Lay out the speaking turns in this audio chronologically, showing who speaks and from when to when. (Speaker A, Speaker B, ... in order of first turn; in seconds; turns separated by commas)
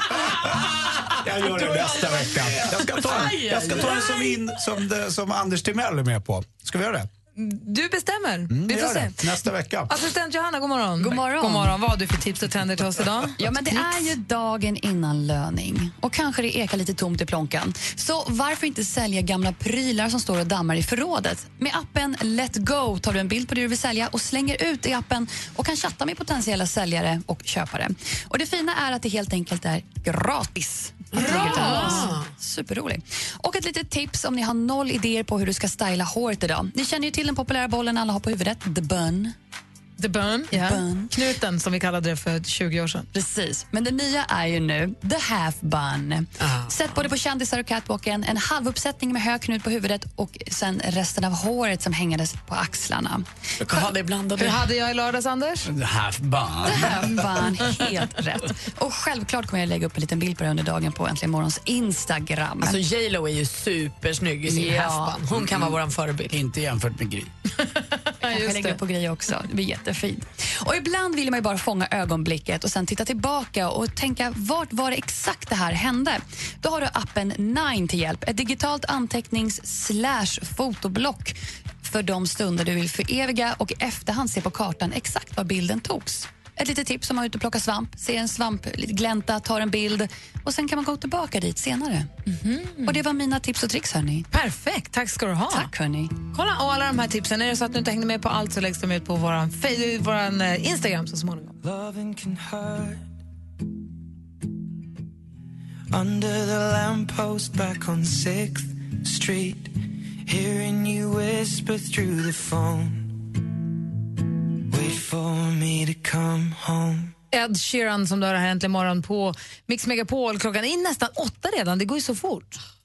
Speaker A: 1.0-7.1, Speaker B: 1.7-4.4, Speaker C: 7.4-9.3, Speaker A: 8.5-10.0, Speaker C: 9.9-14.2, Speaker D: 11.0-11.8, Speaker D: 13.4-39.4, Speaker B: 31.1-32.3, Speaker C: 31.1-32.2, Speaker C: 40.0-43.1, Speaker D: 40.5-41.1, Speaker D: 43.1-53.3, Speaker B: 46.4-46.7, Speaker B: 53.6-54.7, Speaker C: 54.4-55.7, Speaker E: 55.7-57.4, Speaker D: 56.7-62.8, Speaker B: 62.6-66.4, Speaker D: 64.5-65.2, Speaker E: 65.3-65.8, Speaker E: 66.3-67.3, Speaker C: 67.7-68.8, Speaker D: 68.2-92.1, Speaker C: 92.3-93.0, Speaker D: 92.8-94.3, Speaker C: 94.3-95.7, Speaker D: 95.5-96.2, Speaker C: 96.3-101.5, Speaker F: 101.6-103.1, Speaker F: 105.9-109.8, Speaker F: 110.3-113.3, Speaker F: 114.7-117.1, Speaker C: 117.3-122.6